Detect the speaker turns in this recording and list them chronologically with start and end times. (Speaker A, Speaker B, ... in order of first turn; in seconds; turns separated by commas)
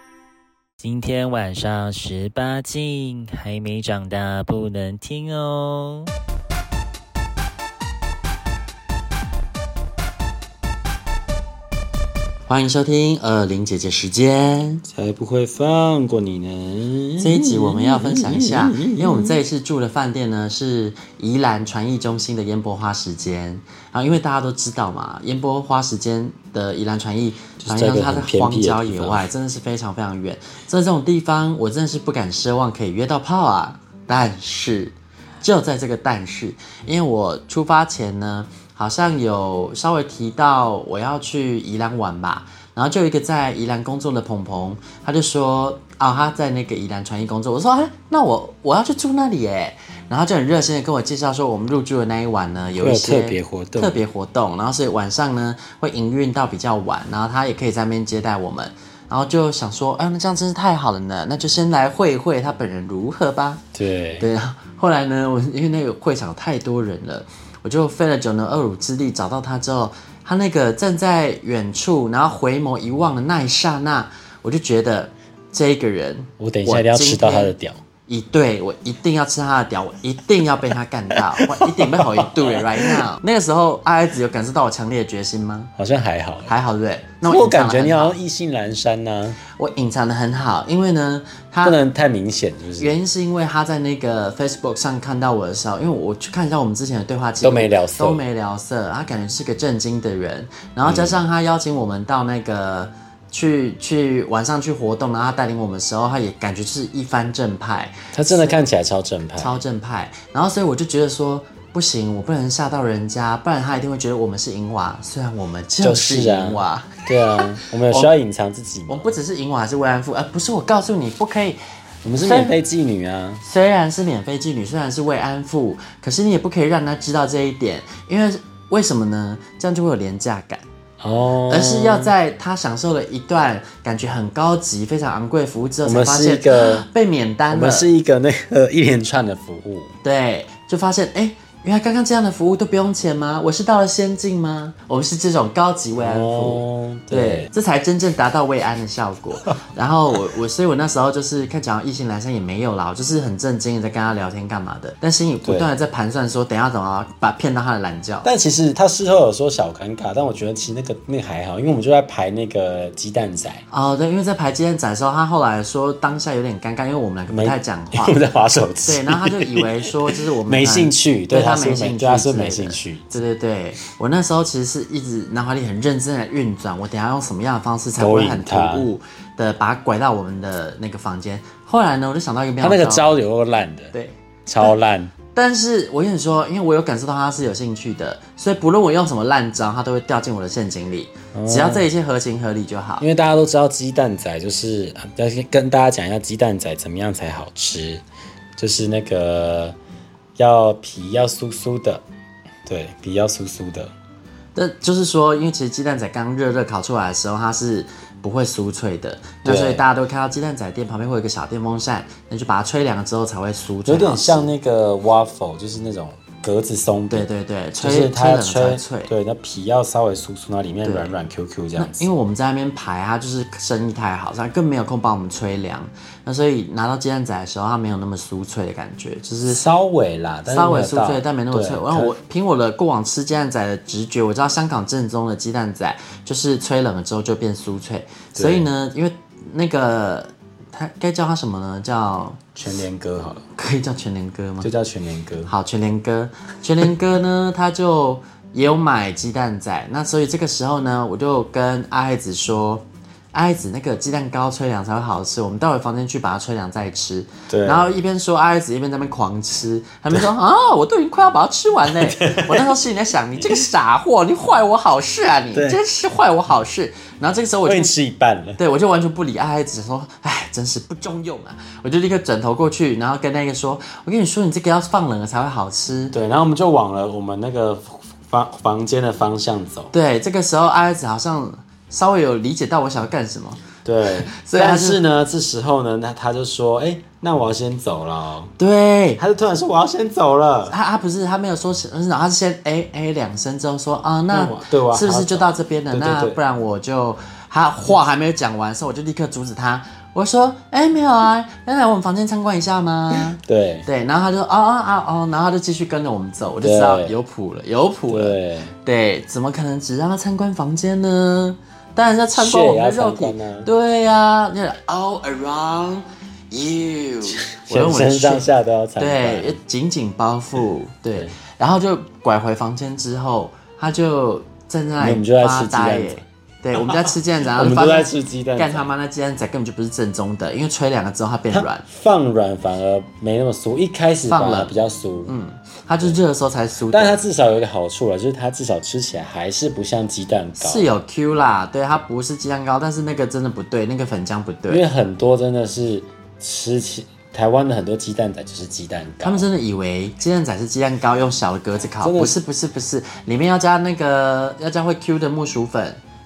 Speaker A: 0.8-6.1, Speaker B: 12.5-14.8, Speaker C: 14.9-19.4, Speaker B: 17.2-63.6, Speaker C: 27.6-29.3, Speaker C: 52.8-54.0, Speaker C: 63.8-64.3, Speaker B: 64.2-77.5, Speaker C: 76.4-77.8, Speaker B: 78.1-85.7, Speaker C: 81.4-83.0, Speaker C: 85.8-86.5, Speaker B: 86.5-88.2, Speaker C: 87.2-89.4, Speaker B: 89.5-91.8, Speaker C: 91.6-92.9, Speaker B: 92.8-108.6, Speaker C: 97.4-98.2, Speaker C: 100.8-101.2, Speaker C: 108.1-109.6, Speaker B: 109.4-118.1, Speaker C: 115.8-119.1, Speaker B: 118.9-121.6, Speaker C: 122.0-123.4, Speaker B: 122.2-122.5, Speaker B: 123.4-130.7, Speaker C: 131.0-132.1, Speaker B: 131.5-137.9, Speaker C: 135.8-136.9, Speaker C: 137.5-140.0, Speaker B: 140.0-158.3, Speaker C: 146.0-147.5, Speaker C: 155.4-155.7, Speaker C: 158.2-163.7, Speaker B: 163.7-168.2, Speaker C: 167.3-173.1, Speaker B: 168.8-183.1, Speaker C: 178.0-178.9, Speaker C: 182.6-183.9, Speaker B: 183.9-184.7, Speaker C: 184.5-185.1, Speaker B: 185.3-193.1, Speaker C: 191.3-191.9, Speaker C: 193.0-198.0, Speaker C: 198.6-199.8, Speaker C: 200.4-202.0, Speaker C: 202.7-203.9, Speaker B: 204.6-214.5, Speaker C: 209.4-209.8, Speaker C: 213.9-222.1, Speaker B: 217.1-219.1, Speaker B: 220.8-221.2, Speaker B: 221.8-229.7, Speaker C: 229.5-232.2, Speaker B: 230.5-242.4, Speaker C: 238.4-238.7, Speaker C: 242.6-243.4, Speaker B: 243.6-244.7, Speaker C: 244.6-245.5, Speaker B: 245.5-267.9, Speaker C: 257.5-257.9, Speaker C: 261.9-262.8, Speaker C: 265.5-265.8, Speaker C: 267.7-268.6, Speaker B: 268.6-276.1, Speaker C: 276.1-279.9, Speaker B: 279.9-283.6, Speaker C: 283.8-288.5, Speaker B: 284.3-285.0, Speaker B: 288.6-289.2, Speaker C: 289.2-290.8, Speaker B: 290.7-318.4, Speaker C: 294.3-296.4, Speaker C: 303.1-303.9, Speaker C: 306.6-307.2, Speaker C: 308.1-308.8, Speaker C: 312.3-313.7, Speaker C: 317.4-319.6, Speaker B: 319.0-331.9, Speaker C: 325.0-326.2, Speaker C: 326.7-328.9, Speaker C: 331.5-335.3, Speaker B: 334.3-334.7, Speaker B: 335.3-337.2, Speaker C: 336.9-340.9, Speaker B: 340.6-344.8, Speaker C: 344.7-349.5, Speaker B: 349.2-356.0, Speaker C: 352.0-352.4